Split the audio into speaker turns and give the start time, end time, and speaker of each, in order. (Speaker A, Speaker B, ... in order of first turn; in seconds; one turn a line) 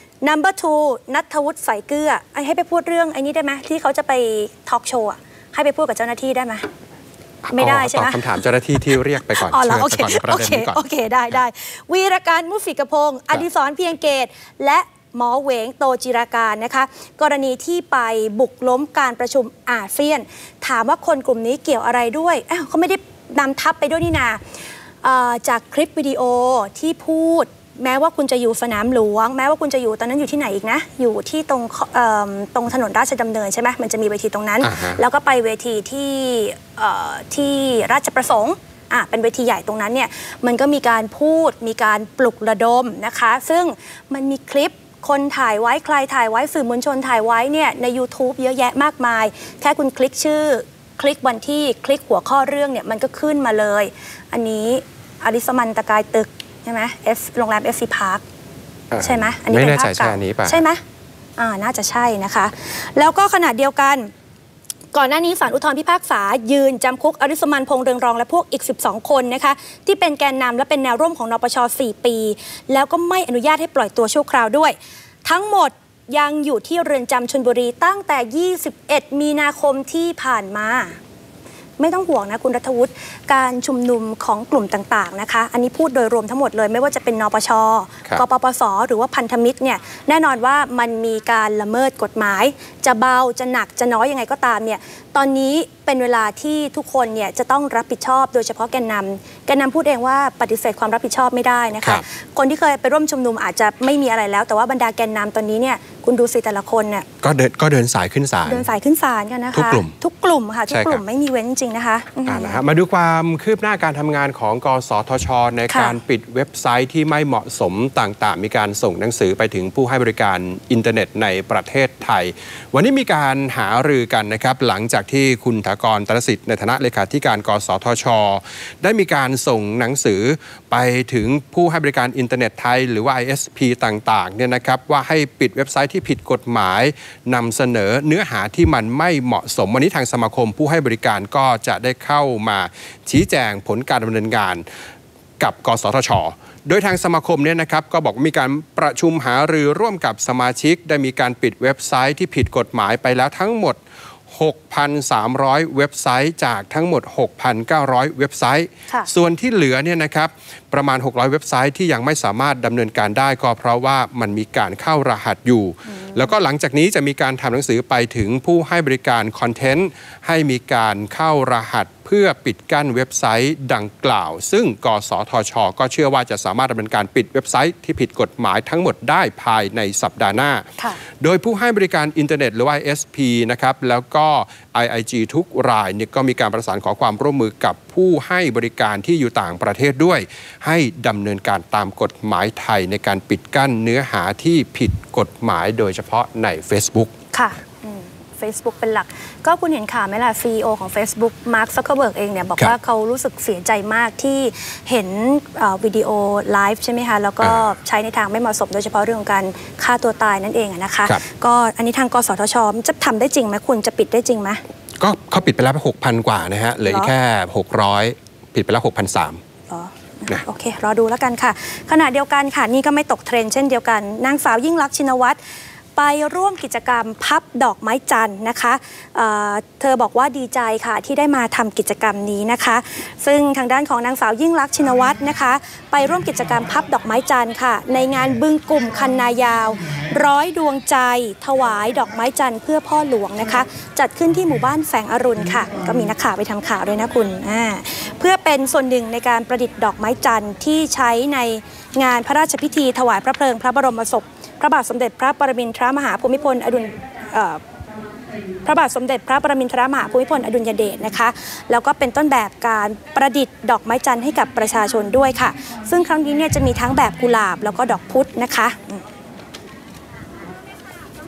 Speaker A: 0.2-6.7
Speaker B: 7.4-10.8
Speaker A: 7.5-24.4
Speaker A: 25.0-58.2
Speaker B: 34.6-35.0
Speaker B: 58.9-60.6
Speaker A: 59.0-60.8
Speaker A: 61.4-64.1
Speaker A: 64.9-81.0
Speaker A: 81.8-107.1
Speaker B: 107.2-108.7
Speaker A: 108.5-112.6
Speaker B: 109.5-110.0
Speaker B: 110.7-111.0
Speaker B: 112.3-144.7
Speaker A: 115.7-116.0
Speaker B: 145.4-180.7
Speaker A: 165.9-166.3
Speaker B: 181.2-197.1
Speaker A: 197.3-214.6
Speaker B: 215.0-219.4
Speaker A: 216.9-217.1
Speaker A: 219.7-225.4
Speaker A: 226.0-257.6
Speaker A: 258.6-269.0